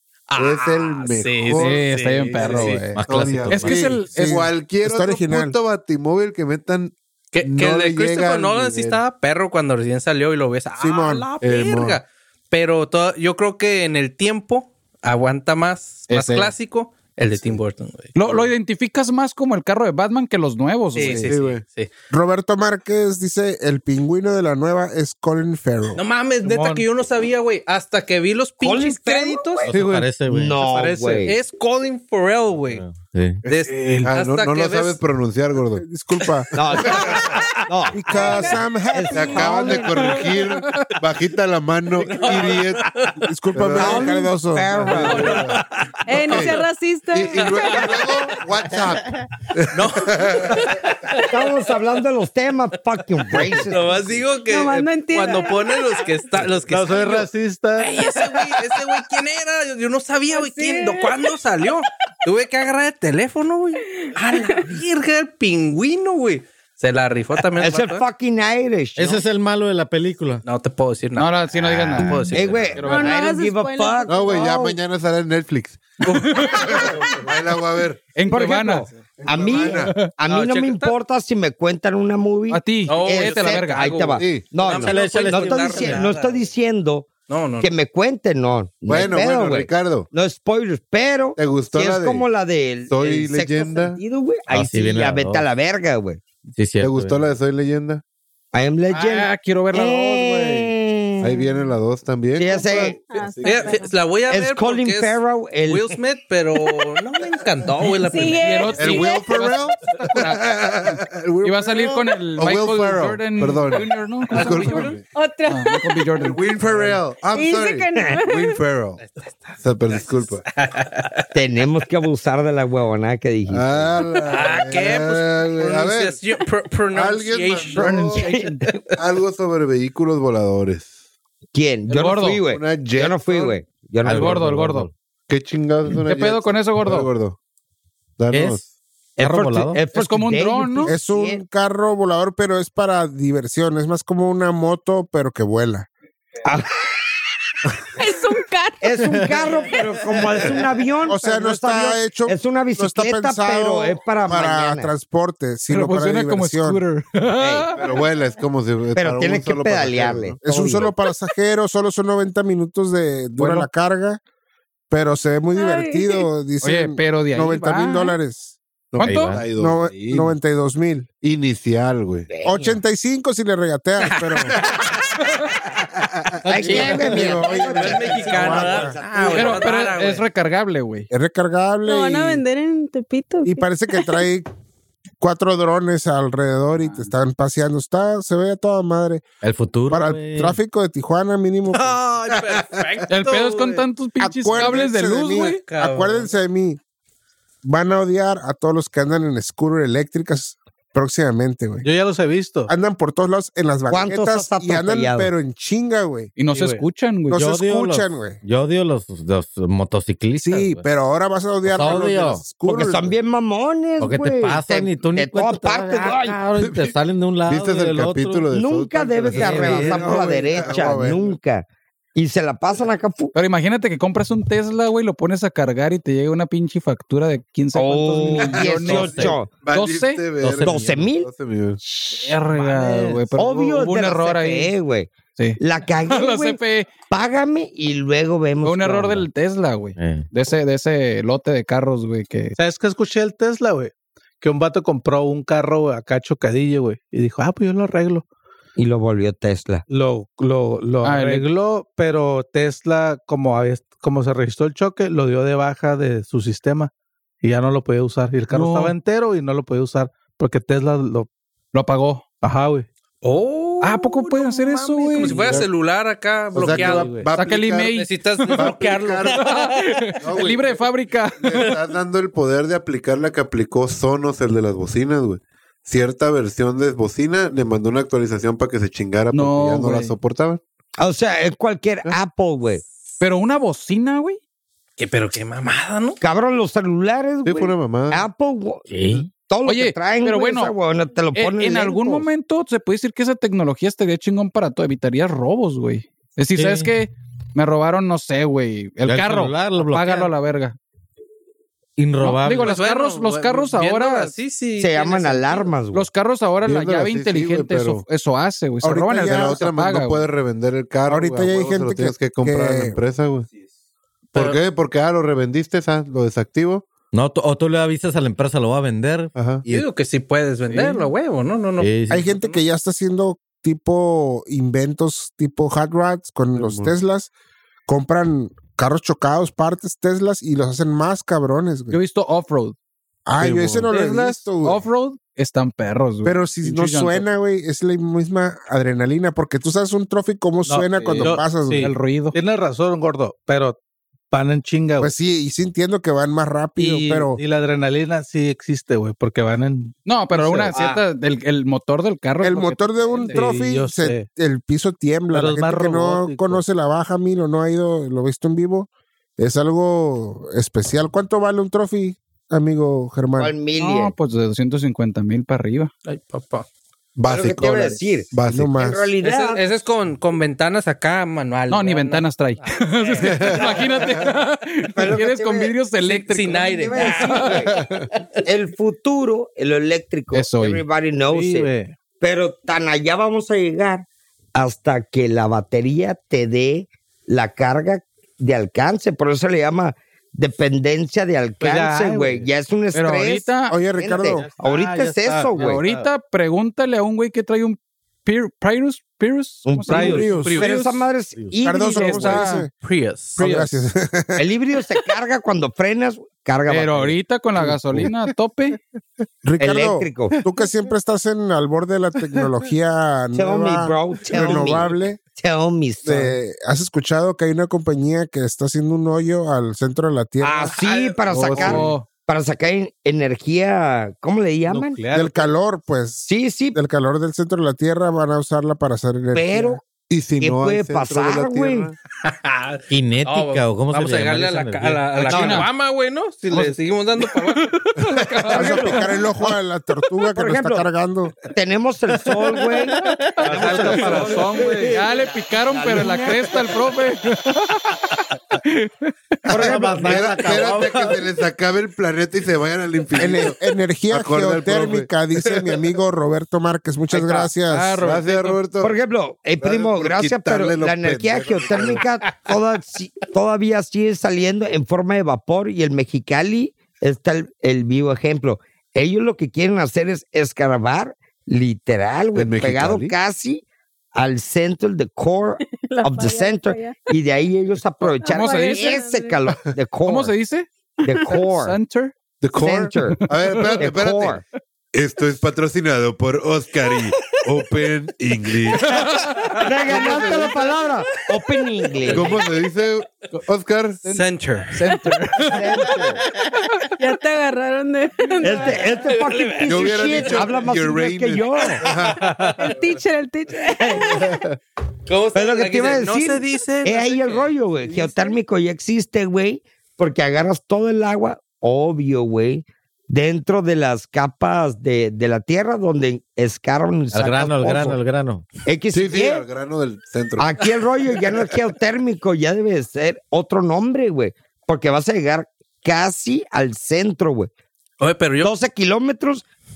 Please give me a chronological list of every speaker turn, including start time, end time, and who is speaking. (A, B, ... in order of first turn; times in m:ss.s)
0:00.3-0:02.8 A
0:00.4-0:09.0 B
0:01.5-0:04.4 C
0:02.9-0:04.0 D
0:03.6-0:05.6 E
0:07.3-0:18.5 A
0:10.8-0:11.3 E
0:11.4-0:12.0 B
0:16.1-0:16.5 C
0:18.2-0:21.4 C
0:20.9-0:21.9 A
0:21.2-0:21.6 B
0:22.1-0:26.0 E
0:26.0-0:29.7 A
0:26.4-0:26.9 F
0:28.6-0:29.7 G
0:29.7-0:30.6 D
0:29.7-0:30.1 B
0:30.3-0:31.4 G
0:30.6-0:31.3 F
0:31.2-0:32.8 A
0:32.7-0:33.4 D
0:33.4-0:35.0 A
0:33.7-0:34.1 F
0:34.0-0:35.8 B
0:35.8-0:36.5 E
0:36.5-0:38.4 G
0:36.7-0:37.4 B
0:36.8-0:37.6 A
0:37.9-0:40.1 E
0:38.1-0:38.6 B
0:38.9-0:40.2 G
0:39.1-0:42.9 B
0:40.3-0:40.9 A
0:42.0-0:43.2 A
0:43.2-0:45.0 E
0:43.5-0:50.7 B
0:43.8-0:45.4 G
0:45.0-0:46.6 A
0:46.1-0:47.9 H
0:47.4-0:48.4 A
0:49.7-0:51.4 A
0:51.2-0:53.9 G
0:53.3-1:08.0 A
0:54.4-0:56.0 H
0:56.6-0:58.0 F
1:00.3-1:01.3 H
1:04.0-1:04.7 H
1:07.6-1:09.2 G
1:09.0-1:10.4 D
1:10.4-1:11.4 A
1:11.2-1:13.1 C
1:11.6-1:12.8 D
1:11.9-1:12.8 A
1:12.3-1:14.8 G
1:12.8-1:14.7 H
1:14.1-1:18.0 B
1:16.0-1:16.8 C
1:16.6-1:16.9 A
1:18.2-1:18.9 C
1:18.3-1:27.1 G
1:19.2-1:20.0 B
1:19.8-1:20.1 C
1:20.3-1:20.9 A
1:22.5-1:24.1 C
1:22.9-1:26.5 A
1:24.2-1:24.4 B
1:24.6-1:26.1 D
1:27.3-1:27.7 A
1:27.6-1:36.2 G
1:28.9-1:30.1 B
1:31.4-1:32.3 B
1:32.9-1:34.0 B
1:34.5-1:35.4 D
1:36.6-1:37.2 D
1:36.8-1:38.0 B
1:38.5-1:41.5 G
1:38.9-1:40.7 C
1:41.2-1:43.6 B
1:42.4-1:43.0 G
1:42.8-1:43.9 H
1:43.4-1:48.8 A
1:44.3-1:46.0 G
1:48.0-1:49.4 H
1:48.4-1:50.6 C
1:48.8-1:55.0 B
1:51.4-1:54.9 C
1:54.3-1:55.0 A
1:55.0-1:56.1 H
1:55.5-1:56.4 C
1:56.2-1:59.0 B
1:57.2-1:58.6 H
1:59.0-2:01.2 A
1:59.6-2:00.4 B
2:01.3-2:03.9 G
2:03.5-2:06.2 B
2:04.3-2:07.9 A
2:06.9-2:08.2 B
2:07.8-2:08.6 C
2:09.0-2:10.9 B
2:11.5-2:14.9 G
2:11.9-2:12.4 C
2:12.5-2:13.6 B
2:14.0-2:14.9 D
2:14.1-2:14.9 C
2:15.3-2:17.4 B
2:16.0-2:17.1 C
2:18.2-2:18.6 B
2:18.3-2:18.6 D
2:19.2-2:21.4 G
2:19.2-2:19.8 D
2:19.9-2:20.9 C
2:20.9-2:25.9 E
2:26.4-2:27.0 G
2:28.0-2:29.0 H
2:28.8-2:34.9 G
2:29.1-2:29.4 D
2:31.1-2:36.8 E
2:35.7-2:38.0 C
2:37.4-2:37.6 G
2:37.8-2:40.4 B
2:39.0-2:40.9 G
2:40.4-2:44.2 E
2:44.9-2:48.6 E
2:45.6-2:46.3 H
2:46.6-2:48.2 C
2:48.9-2:50.4 B
2:49.0-2:49.4 C
2:49.0-2:49.5 D
2:49.5-2:51.1 E
2:51.2-2:52.3 B
2:52.3-2:52.8 G
2:52.4-2:54.7 E
2:54.0-2:55.2 A
2:55.8-2:56.4 B
2:56.4-2:59.8 G
2:56.5-2:57.4 D
2:56.5-2:59.0 E
2:57.5-3:00.3 A
2:59.3-3:01.1 C
3:01.1-3:02.4 E
3:01.8-3:04.3 H
3:03.4-3:04.5 E
3:05.2-3:09.2 E
3:06.8-3:07.1 C
3:09.4-3:10.6 D
3:09.9-3:12.0 E
3:11.7-3:13.8 A
3:12.3-3:13.0 B
3:13.1-3:15.6 C
3:14.2-3:16.8 E
3:15.4-3:16.3 A
3:17.6-3:21.9 E
3:21.8-3:22.7 F
3:22.7-3:26.4 E
3:23.9-3:25.3 G
3:26.4-3:27.4 C
3:26.5-3:26.8 F
3:27.3-3:28.4 E
3:27.3-3:30.8 D
3:30.4-3:33.2 E
3:31.6-3:32.4 D
3:32.6-3:36.4 G
3:34.0-3:38.5 D
3:36.6-3:37.0 B
3:37.5-3:41.3 B
3:38.5-3:43.3 G
3:39.3-3:40.1 D
3:39.6-3:41.2 E
3:43.4-3:50.3 C
3:47.7-3:49.5 G
3:48.6-3:49.0 B
3:48.8-3:49.4 D
3:49.6-3:51.8 B
3:50.4-3:51.1 D
3:50.6-3:51.3 G
3:51.8-3:59.3 G
3:52.2-3:54.7 C
3:55.4-3:56.9 C
3:58.6-4:02.6 C
4:00.0-4:00.3 D
4:02.6-4:08.2 F
4:08.8-4:09.8 G
4:09.9-4:16.9 F
4:11.0-4:11.5 C
4:17.4-4:21.3 F
4:18.5-4:19.0 C
4:21.7-4:22.3 C
4:22.4-4:22.9 F
4:23.2-4:27.3 A
4:23.8-4:25.6 C
4:25.4-4:25.7 B
4:26.5-4:27.9 B
4:26.7-4:27.3 F
4:27.3-4:31.8 C
4:27.9-4:29.8 A
4:28.5-4:29.4 B
4:30.2-4:30.8 B
4:31.4-4:40.6 B
4:39.3-4:40.2 C
4:41.0-4:42.8 G
4:43.2-4:44.4 C
4:45.0-4:46.2 A
4:46.2-4:52.3 G
4:47.4-4:48.2 B
4:48.9-4:49.3 D
4:49.6-4:50.7 C
4:51.3-5:00.8 C
4:56.6-4:56.9 D
4:59.0-5:00.3 D
5:02.0-5:02.8 D
5:02.2-5:04.3 C
5:02.6-5:05.7 A
5:04.8-5:06.1 G
5:05.9-5:10.3 C
5:06.6-5:08.0 B
5:08.8-5:09.6 E
5:09.2-5:13.5 B
5:11.1-5:13.0 E
5:14.3-5:14.6 A
5:14.4-5:16.9 B
5:17.1-5:19.9 D
5:19.4-5:19.6 B
5:19.7-5:22.6 A
5:20.7-5:21.1 C
5:21.8-5:22.3 D
5:22.1-5:27.3 E
5:26.6-5:26.9 B
5:27.9-5:32.0 E
5:31.9-5:32.8 C
5:33.3-5:34.8 E
5:33.4-5:33.9 B
5:33.9-5:37.2 C
5:36.2-5:41.9 E
5:40.6-5:43.8 F
5:41.2-5:42.4 C
5:44.3-5:45.1 F
5:45.0-5:47.4 E
5:46.8-5:50.8 F
5:50.1-5:53.6 C
5:50.7-5:51.0 G
5:52.4-6:03.6 E
5:53.3-5:54.3 F
5:55.3-5:56.6 F
6:03.4-6:04.1 G
6:03.8-6:05.9 C
6:06.1-6:06.7 A
6:07.2-6:08.8 B
6:07.3-6:09.6 G
6:08.5-6:09.1 E
6:09.2-6:12.2 A
6:11.7-6:17.5 C
6:13.2-6:13.6 B
6:15.0-6:17.8 G
6:16.1-6:17.6 A
6:17.8-6:18.0 B
6:18.4-6:21.7 G
6:20.3-6:20.8 C
6:21.3-6:22.0 F
6:22.2-6:35.8 G
6:31.6-6:32.5 F
6:32.9-6:33.8 C
6:33.7-6:34.5 E
6:34.4-6:35.0 D
6:34.6-6:36.1 F
6:35.6-6:40.6 C
6:39.7-6:42.5 G
6:39.9-6:40.6 E
6:39.9-6:40.7 F
6:41.4-6:41.7 D
6:41.6-6:42.7 E
6:41.8-6:42.7 C
6:42.8-6:43.5 A
6:43.4-6:44.4 E
6:43.4-6:43.7 C
6:44.4-6:47.2 G
6:46.7-6:48.8 C
6:47.6-6:48.2 B
6:49.4-6:55.2 E
6:49.6-6:50.4 G
6:53.3-6:56.4 G
6:56.0-7:00.8 E
7:00.4-7:05.0 G
7:00.8-7:01.2 A
7:01.3-7:01.9 B
7:01.5-7:02.1 C
7:04.7-7:05.5 F
7:05.1-7:09.8 E
7:06.2-7:06.8 G
7:09.3-7:09.8 G
7:10.1-7:12.0 B
7:10.4-7:11.9 G
7:12.2-7:17.7 A
7:12.9-7:15.1 D
7:15.2-7:15.7 C
7:15.2-7:15.7 G
7:16.5-7:19.3 C
7:18.5-7:21.4 E
7:18.6-7:18.9 G
7:20.4-7:20.9 G
7:21.5-7:26.8 G
7:23.4-7:29.8 C
7:23.4-7:24.9 F
7:29.5-7:31.2 D
7:29.7-7:33.6 B
7:29.7-7:30.0 G
7:33.2-7:38.0 E
7:34.1-7:35.8 B
7:37.1-7:38.6 C
7:38.0-7:39.0 B
7:38.8-8:00.3 G
7:39.6-7:42.0 B
7:52.4-7:53.2 B
7:55.7-7:57.1 H
7:58.2-7:59.5 H
7:58.2-7:59.0 C
8:00.0-8:00.7 C
8:01.0-8:01.8 G
8:01.0-8:01.3 H
8:01.3-8:02.1 C
8:02.4-8:04.4 B
8:02.6-8:03.2 G
8:03.0-8:03.9 C
8:03.8-8:04.4 G
8:04.9-8:09.1 B
8:08.8-8:09.6 C
8:09.5-8:12.4 G
8:09.7-8:10.7 B
8:12.0-8:12.4 A
8:12.1-8:14.1 B
8:14.1-8:14.8 A
8:14.7-8:15.9 C
8:15.5-8:16.2 G
8:17.0-8:19.0 H
8:18.4-8:21.8 G
8:18.9-8:20.4 A
8:19.6-8:22.2 B
8:22.6-8:24.4 H
8:25.1-8:27.5 A
8:25.3-8:38.0 G
8:37.1-8:38.4 D
8:38.7-8:39.4 G
8:38.9-8:40.5 B
8:40.4-8:47.5 G
8:48.0-8:48.5 A
8:48.4-8:49.4 G